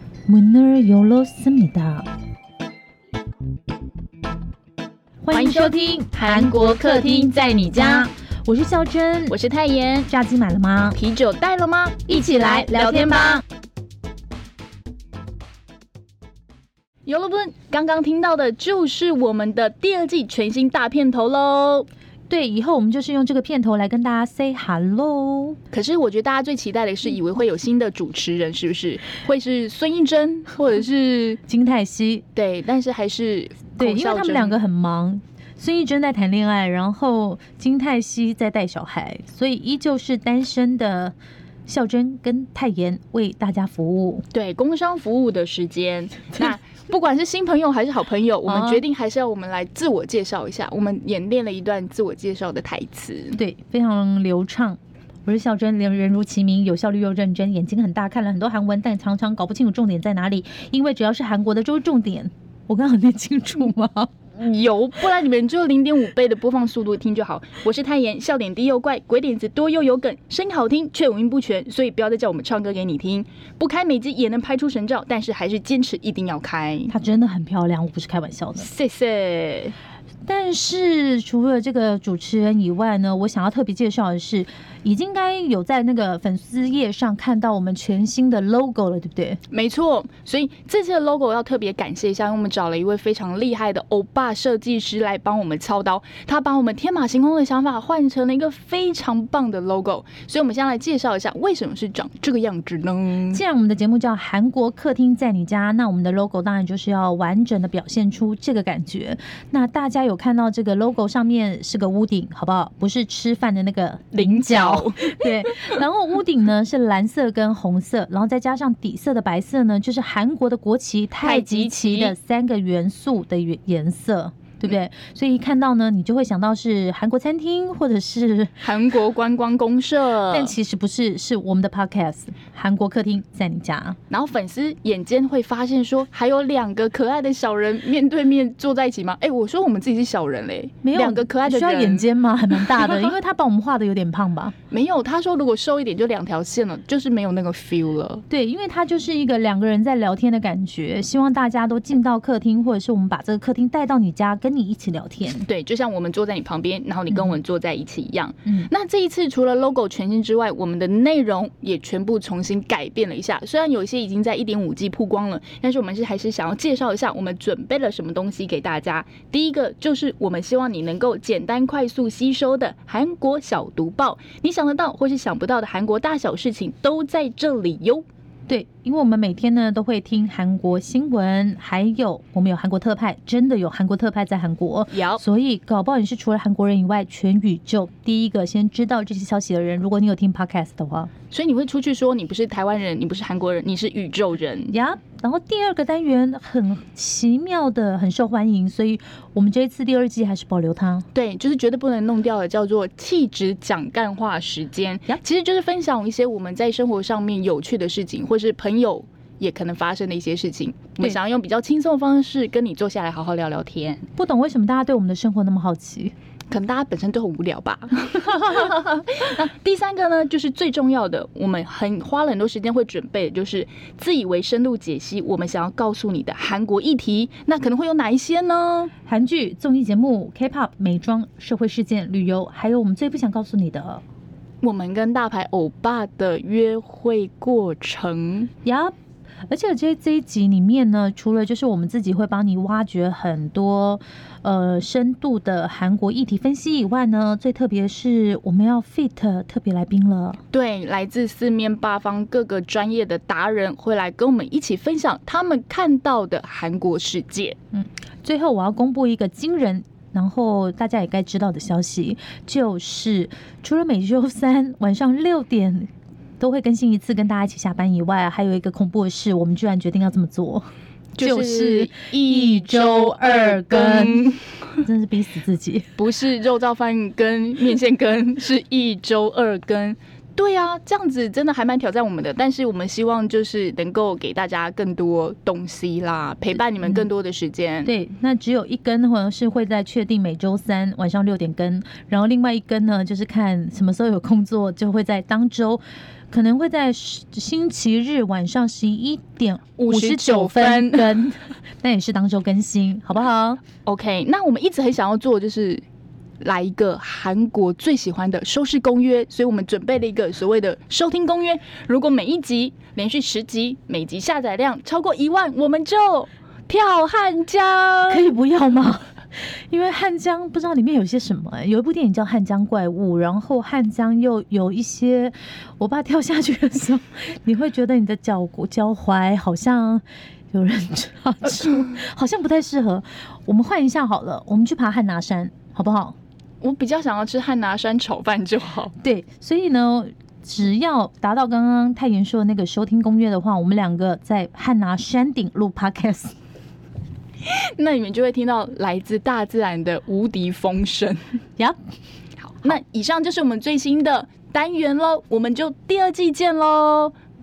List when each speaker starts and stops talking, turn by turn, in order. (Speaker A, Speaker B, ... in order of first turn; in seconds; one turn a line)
Speaker A: 0.3-2.1
Speaker A: 5.2-9.4
Speaker B: 5.3-8.1
Speaker B: 9.3-10.1
Speaker A: 10.1-11.0
Speaker B: 10.9-13.4
Speaker A: 12.1-13.4
Speaker B: 17.1-21.9
Speaker A: 22.3-25.6
Speaker B: 25.7-31.4
Speaker A: 31.5-32.2
Speaker B: 32.3-34.6
Speaker A: 33.7-44.2
Speaker B: 44.3-53.4
Speaker A: 48.5-48.8
Speaker A: 53.4-64.1
Speaker B: 64.3-76.9
Speaker A: 76.9-78.7
Speaker B: 78.6-79.7
Speaker A: 80.2-89.4
Speaker B: 89.5-103.4
Speaker A: 103.3-128.6
Speaker B: 114.1-115.8
Speaker B: 121.2-122.1
Speaker B: 128.6-130.5
Speaker A: 130.3-134.0
Speaker B: 134.1-143.2
Speaker A: 140.8-144.5
Speaker B: 144.7-148.2
Speaker A: 148.3-155.4
Speaker B: 155.5-178.1
Speaker A: 157.1-157.4
Speaker A: 178.5-191.1
Speaker B: 184.9-185.2
Speaker B: 191.3-194.8
Speaker A: 194.7-201.1
Speaker B: 201.1-214.1
Speaker A: 214.2-216.1
Speaker B: 216.5-228.9
Speaker A: 229.0-234.0
Speaker B: 234.6-238.5
Speaker A: 238.6-238.9
Speaker A: 239.5-250.4
Speaker B: 250.5-257.6
Speaker A: 257.7-265.9
Speaker A: 266.4-270.6
Speaker B: 271.1-274.9
Speaker A: 271.2-275.9
Speaker B: 276.0-287.9
Speaker A: 286.8-287.1
Speaker A: 287.9-303.7
Speaker B: 299.8-301.2
Speaker B: 303.9-305.8
Speaker B: 306.4-318.3
Speaker A: 318.1-336.2
Speaker B: 336.6-338.9
Speaker A: 339.0-346.3
Speaker B: 347.4-351.2
Speaker B: 352.4-357.1